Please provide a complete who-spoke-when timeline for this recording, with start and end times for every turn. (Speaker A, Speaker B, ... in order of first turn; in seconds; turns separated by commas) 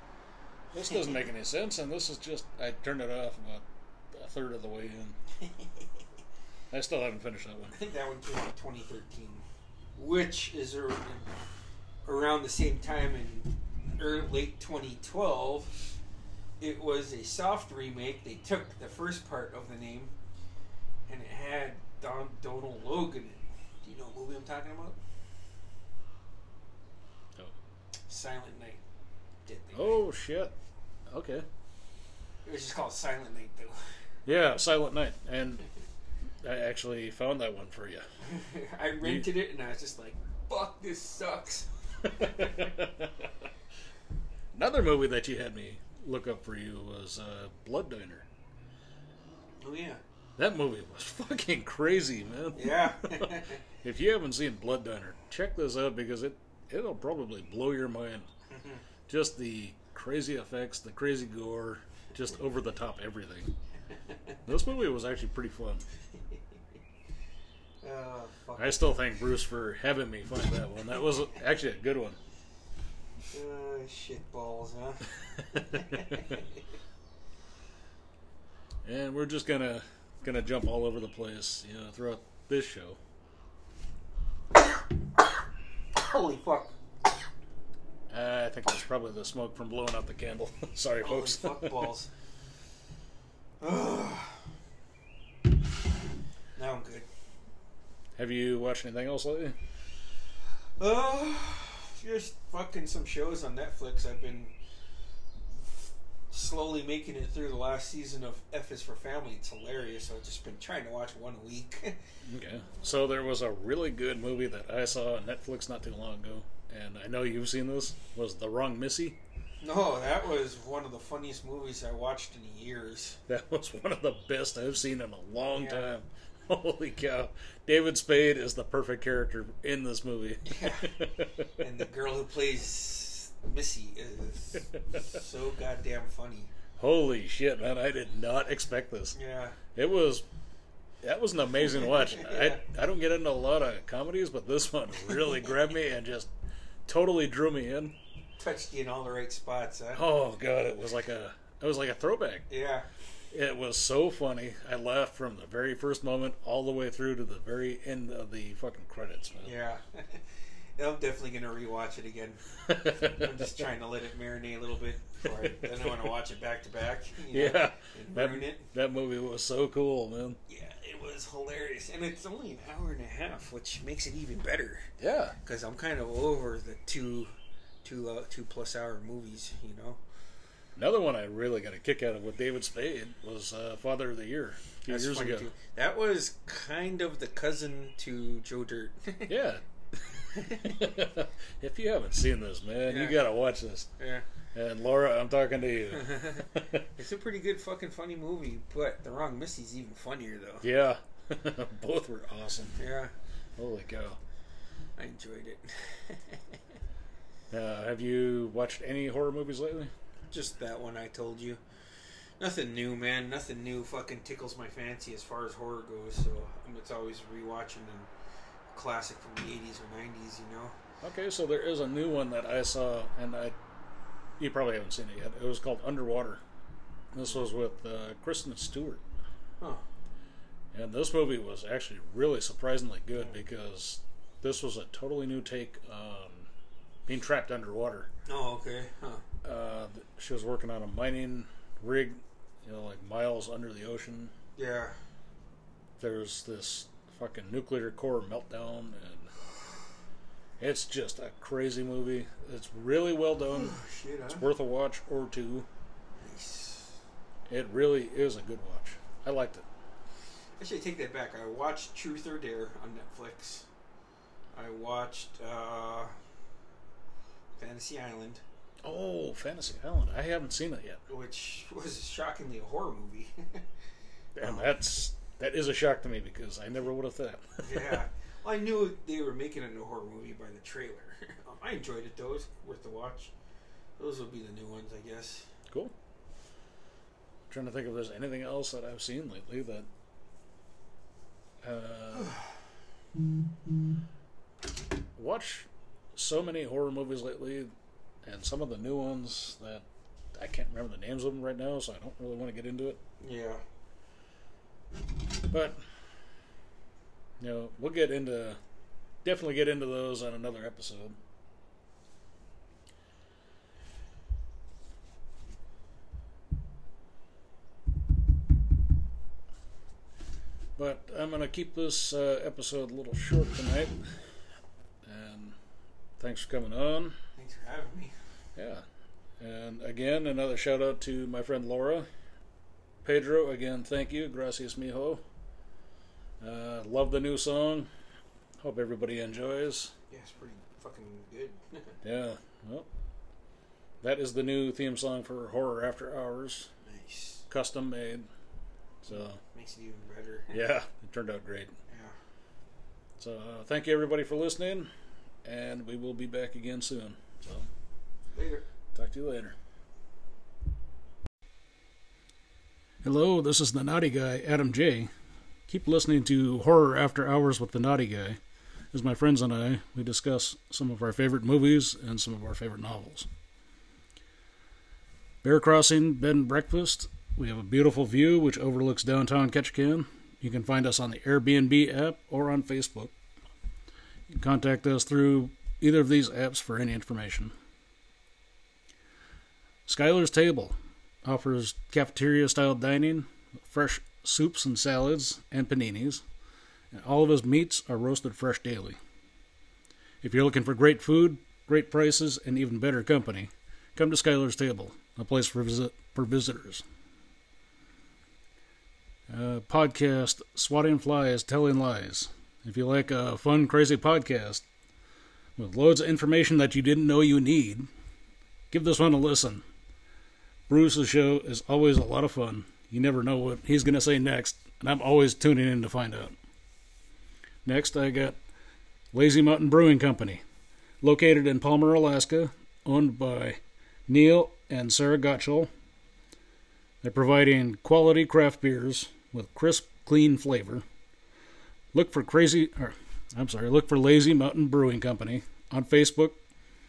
Speaker A: 0.7-5.2, Speaker B: 0.8-1.2, Speaker A: 6.7-7.8, Speaker B: 7.7-9.4, Speaker B: 10.0-11.3, Speaker B: 12.1-15.8, Speaker B: 16.6-20.1, Speaker B: 21.1-25.0, Speaker B: 28.1-28.8, Speaker B: 29.4-30.0, Speaker A: 29.7-30.5, Speaker A: 31.1-31.4, Speaker B: 32.4-33.8, Speaker A: 34.2-35.6, Speaker A: 36.4-38.0, Speaker B: 38.2-42.7, Speaker A: 39.0-39.3, Speaker A: 42.0-43.3, Speaker A: 44.5-48.3, Speaker B: 49.6-50.0, Speaker A: 50.4-58.3, Speaker B: 52.5-53.6, Speaker B: 58.5-58.8, Speaker A: 59.1-63.5, Speaker A: 64.5-65.8, Speaker B: 67.8-69.0, Speaker A: 68.6-72.2, Speaker B: 73.3-76.6, Speaker A: 75.7-76.0, Speaker A: 78.8-83.0, Speaker B: 85.9-86.7, Speaker A: 88.1-91.9, Speaker B: 91.0-92.1, Speaker B: 93.6-94.4, Speaker B: 96.5-97.1, Speaker A: 98.2-99.5, Speaker B: 100.8-104.5, Speaker B: 105.6-112.0, Speaker A: 112.2-119.2, Speaker B: 119.6-123.2, Speaker A: 123.3-131.5, Speaker B: 125.5-125.9, Speaker B: 130.4-131.0, Speaker B: 131.6-136.5, Speaker A: 136.8-139.2, Speaker B: 139.1-139.6, Speaker A: 139.7-140.2, Speaker A: 141.0-146.3, Speaker B: 141.9-142.6, Speaker A: 146.8-147.9, Speaker B: 148.4-150.0, Speaker A: 149.9-152.5, Speaker B: 152.5-152.8, Speaker A: 153.3-159.5, Speaker B: 159.4-160.2, Speaker B: 160.8-168.7, Speaker A: 162.7-163.5, Speaker A: 165.2-166.2, Speaker A: 167.3-170.4, Speaker B: 170.5-174.9, Speaker A: 175.0-175.3, Speaker B: 175.4-177.3, Speaker B: 177.8-180.0, Speaker A: 180.8-185.5, Speaker B: 184.9-189.3, Speaker A: 189.3-193.9, Speaker B: 190.3-190.8, Speaker B: 192.8-193.2, Speaker B: 194.0-194.2, Speaker A: 194.5-196.8, Speaker B: 195.9-200.7, Speaker A: 200.6-202.8, Speaker B: 202.8-203.1, Speaker A: 203.6-204.2, Speaker B: 205.0-206.6, Speaker A: 207.5-209.9, Speaker B: 210.3-211.6, Speaker B: 212.4-218.1, Speaker B: 218.7-220.8, Speaker A: 221.0-223.5, Speaker A: 224.4-226.4, Speaker A: 227.1-229.0, Speaker B: 227.1-227.4, Speaker A: 230.7-236.5, Speaker A: 237.1-238.1, Speaker B: 238.3-239.2, Speaker A: 239.4-244.3, Speaker B: 244.6-244.9, Speaker A: 246.0-249.3, Speaker A: 250.6-253.7, Speaker B: 253.4-254.4, Speaker A: 254.3-255.7, Speaker B: 256.2-257.0, Speaker A: 257.5-259.6, Speaker B: 260.6-263.6, Speaker B: 264.5-266.1, Speaker B: 267.6-268.4, Speaker A: 268.8-271.0, Speaker B: 271.1-273.6, Speaker A: 274.3-278.0, Speaker B: 274.4-274.7, Speaker B: 277.6-283.3, Speaker B: 284.0-285.5, Speaker A: 287.5-289.9, Speaker A: 291.6-292.4, Speaker A: 295.1-297.7, Speaker A: 298.2-303.0, Speaker B: 303.2-303.6, Speaker A: 305.5-305.8, Speaker A: 307.4-308.6, Speaker A: 309.2-311.2, Speaker A: 320.8-324.1, Speaker A: 325.0-325.6, Speaker A: 326.2-327.2, Speaker B: 327.4-328.1, Speaker A: 328.6-328.8, Speaker A: 329.4-332.1, Speaker A: 333.0-335.2, Speaker A: 336.4-337.9, Speaker A: 338.6-339.9, Speaker B: 340.1-341.9, Speaker A: 342.0-342.9, Speaker A: 344.0-346.7, Speaker B: 346.8-347.4, Speaker A: 347.5-348.3, Speaker A: 349.0-349.4, Speaker B: 349.1-350.6, Speaker A: 350.5-351.7, Speaker B: 351.9-352.1, Speaker A: 353.2-354.9, Speaker A: 355.4-357.7, Speaker B: 358.3-358.6, Speaker A: 358.9-359.6, Speaker A: 363.0-365.1, Speaker A: 365.7-368.4, Speaker A: 368.9-373.3, Speaker A: 375.4-383.1, Speaker A: 384.4-387.5, Speaker A: 389.9-396.2, Speaker A: 396.9-399.0, Speaker A: 400.2-406.8, Speaker A: 409.3-414.6, Speaker A: 415.6-417.8, Speaker A: 418.7-419.6, Speaker A: 420.7-426.3, Speaker A: 427.6-428.4, Speaker A: 429.1-430.4, Speaker A: 431.0-435.7, Speaker A: 437.0-440.8, Speaker A: 441.9-446.4